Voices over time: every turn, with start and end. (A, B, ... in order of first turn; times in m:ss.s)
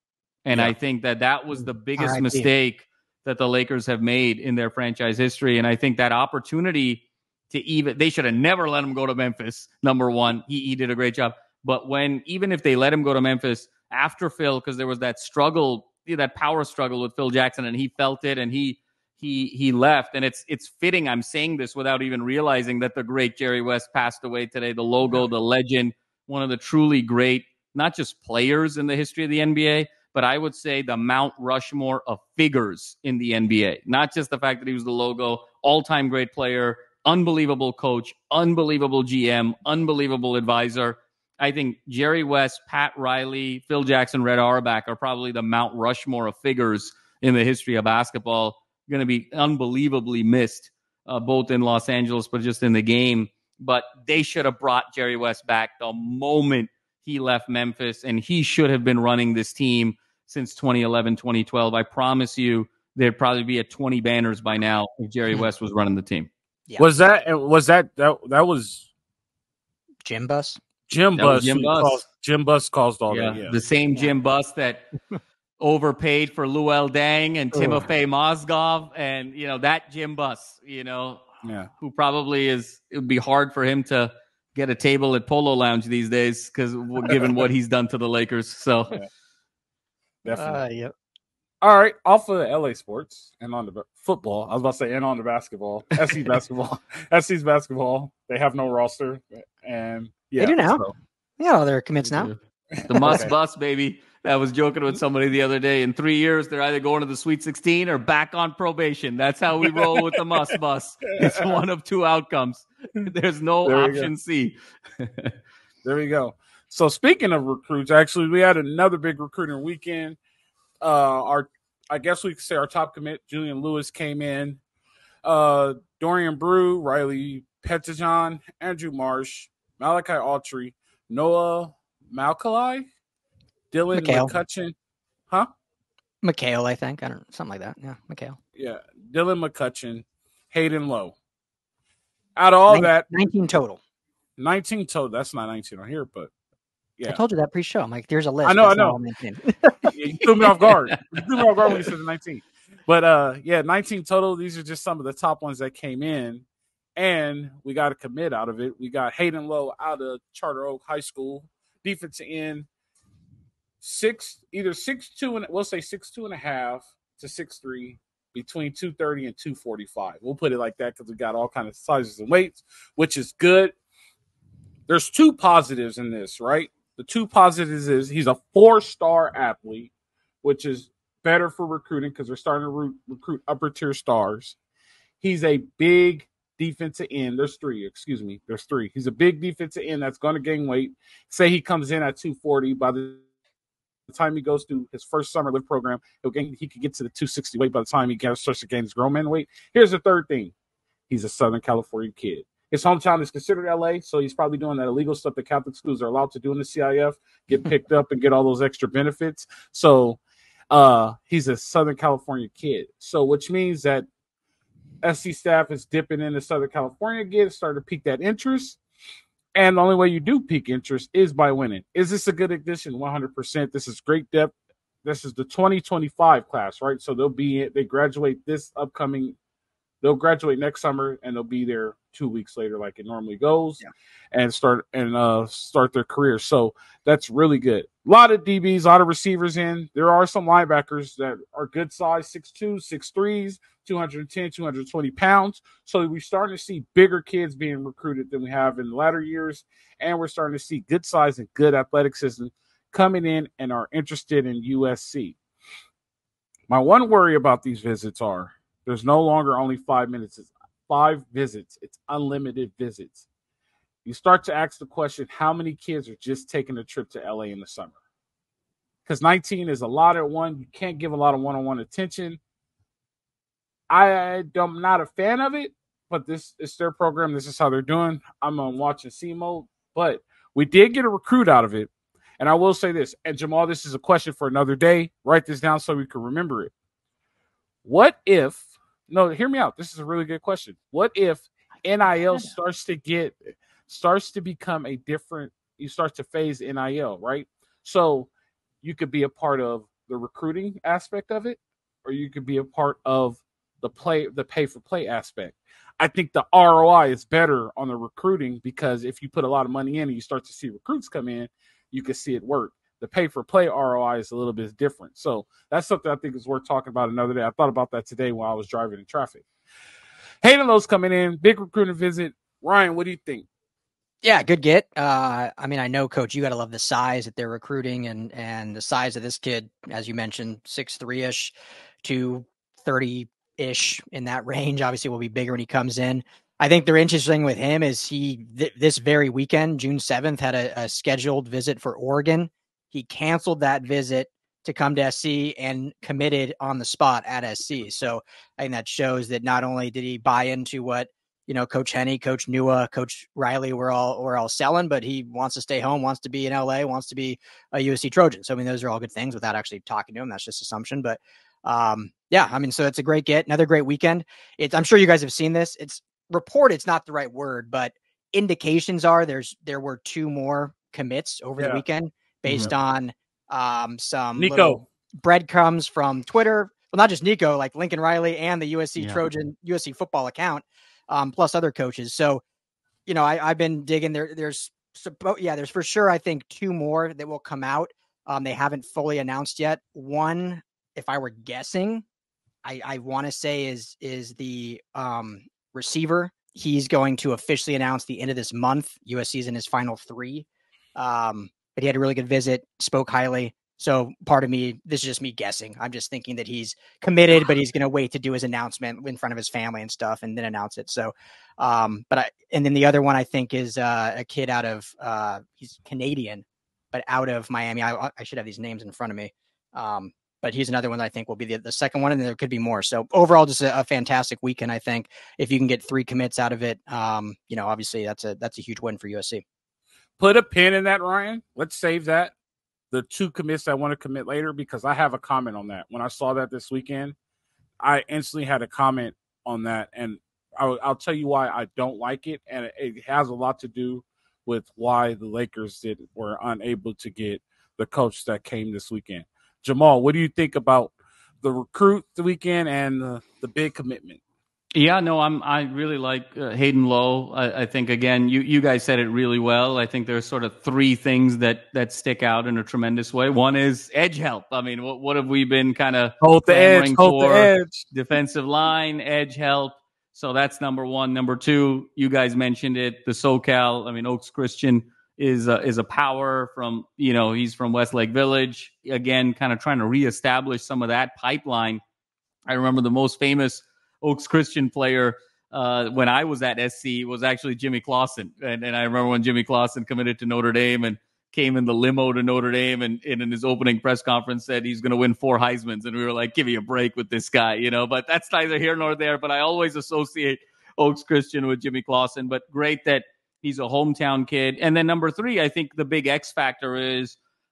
0:00.4-1:06.3 A
0:02.0-0:02.5 B
1:06.8-1:08.9 C
1:10.0-1:10.6 B
1:10.9-1:13.6 C
1:11.1-1:12.0 A
1:13.1-1:14.8 A
1:15.6-1:21.2 A
1:21.4-1:21.7 C
1:21.8-1:29.0 A
1:30.2-1:30.6 C
1:30.4-1:30.9 B
1:31.6-1:41.0 C
1:40.4-1:40.8 B
1:41.4-1:42.3 B
1:42.0-1:55.3 A
1:42.8-1:43.3 C
1:49.7-1:49.9 C
1:51.2-1:51.6 C
1:53.6-1:54.1 C
1:55.8-2:00.2 C
2:00.8-2:04.6 C
2:05.2-2:12.9 C
2:13.7-2:14.7 C
2:13.9-2:14.3 B
2:16.2-2:18.4 B
2:18.6-2:21.2 C
2:22.4-2:23.1 C
2:22.7-2:23.8 B
2:24.4-2:26.3 C
2:27.1-2:29.9 B
2:28.4-2:29.0 C
2:29.9-2:36.4 C
2:37.0-2:42.7 C
2:43.8-2:53.8 C
2:54.9-2:59.9 C
3:00.4-3:04.6 C
3:05.2-3:13.2 C
3:14.1-3:20.5 C
3:21.1-3:30.2 C
3:30.7-3:34.1 C
3:35.0-3:38.8 C
3:39.5-3:44.5 C
3:45.0-3:49.4 C
3:50.0-4:15.4 C
4:16.7-4:23.2 C
4:24.0-4:28.0 C
4:29.0-4:32.4 C
4:33.9-4:46.7 C
4:47.8-4:58.3 C
4:58.8-5:19.4 C
5:20.4-5:23.5 C
5:24.2-6:22.4 B
6:11.6-6:11.8 C
6:14.4-6:14.8 C
6:19.0-6:19.2 A
6:23.0-6:32.0 B
6:32.6-7:09.4 B
7:10.2-7:12.3 C
7:12.9-7:17.1 C
7:17.8-7:34.2 C
7:34.7-8:01.8 A
7:46.2-7:47.9 C
8:02.5-8:27.2 A